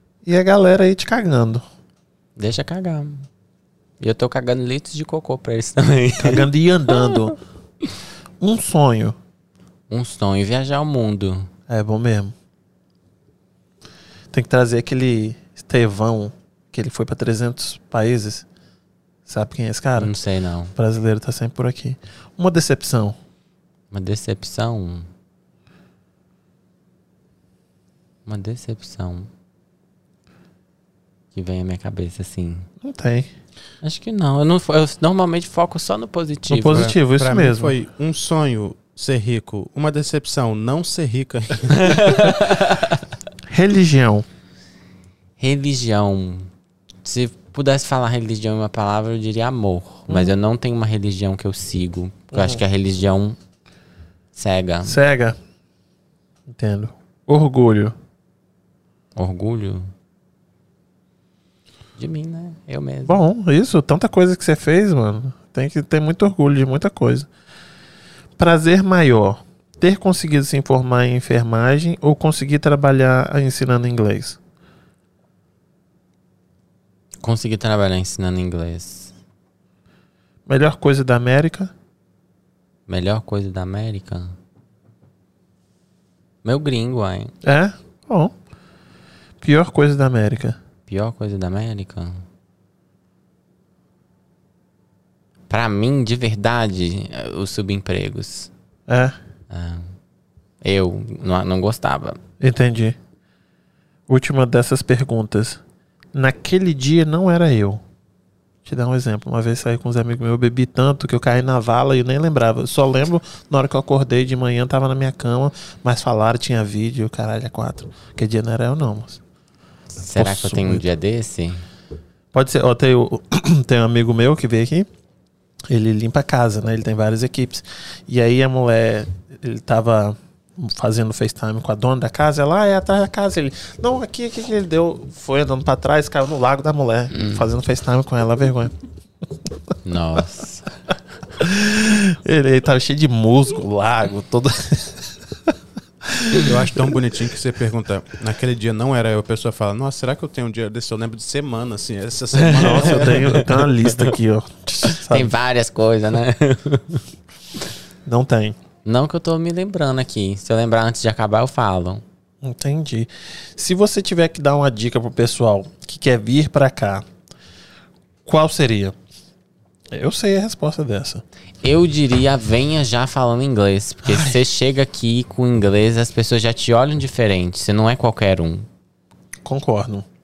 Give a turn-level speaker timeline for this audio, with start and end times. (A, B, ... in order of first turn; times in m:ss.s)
0:00.2-0:01.6 A
0:02.4-0:03.3 B
0:04.0-0:07.2 B
0:06.2-0:07.4 A
0:08.4-0:09.1 A
0:09.9-0:11.5 B
0:11.7-0:12.3 A
0:14.3-0:18.4 A
0:19.3-0:20.1 A
0:20.0-0:20.7 B
0:20.8-0:23.2 A
0:23.9-0:25.1 B
0:28.2-0:29.3 B
0:31.3-0:32.7 B
0:32.8-0:33.3 A
0:33.8-0:36.9 B
0:36.5-0:37.7 A
0:36.7-0:42.3 C
0:41.7-0:43.0 B
0:43.5-0:44.2 A
0:45.4-0:46.5 B
0:47.0-0:53.4 B
0:50.1-0:50.3 A
0:52.3-0:52.6 A
0:54.3-0:55.0 B
0:54.8-0:55.4 A
0:56.5-0:57.9 A
0:59.2-0:59.9 B
1:02.0-1:03.2 B
1:03.1-1:07.3 A
1:08.4-1:14.4 A
1:17.2-1:19.1 B
1:20.5-1:21.7 A
1:22.9-1:24.3 B
1:26.4-1:27.3 B
1:27.4-1:28.3 A
1:29.4-1:30.6 A
1:30.9-1:32.2 B
1:35.5-1:38.5 B
1:38.9-1:39.1 A
1:39.5-1:39.9 B
1:40.6-1:42.2 B
1:42.4-1:43.0 A
1:44.1-1:45.6 A
1:46.1-1:47.8 A
1:48.6-1:59.2 A
2:00.0-2:01.6 B
2:00.2-2:00.9 A
2:02.3-2:04.9 A
2:05.7-2:18.7 A
2:17.1-2:17.4 B
2:19.8-2:20.7 B
2:21.4-2:25.5 A
2:26.1-2:26.5 A
2:26.4-2:33.5 C
2:32.4-2:34.1 B
2:32.6-2:35.3 A
2:34.8-2:37.0 B
2:38.0-2:38.6 A
2:38.8-2:42.0 B
2:42.4-2:47.0 A
2:48.2-2:48.9 A
2:49.9-2:51.2 A
2:51.6-2:58.7 B
2:54.0-2:54.4 A
2:59.4-3:00.0 A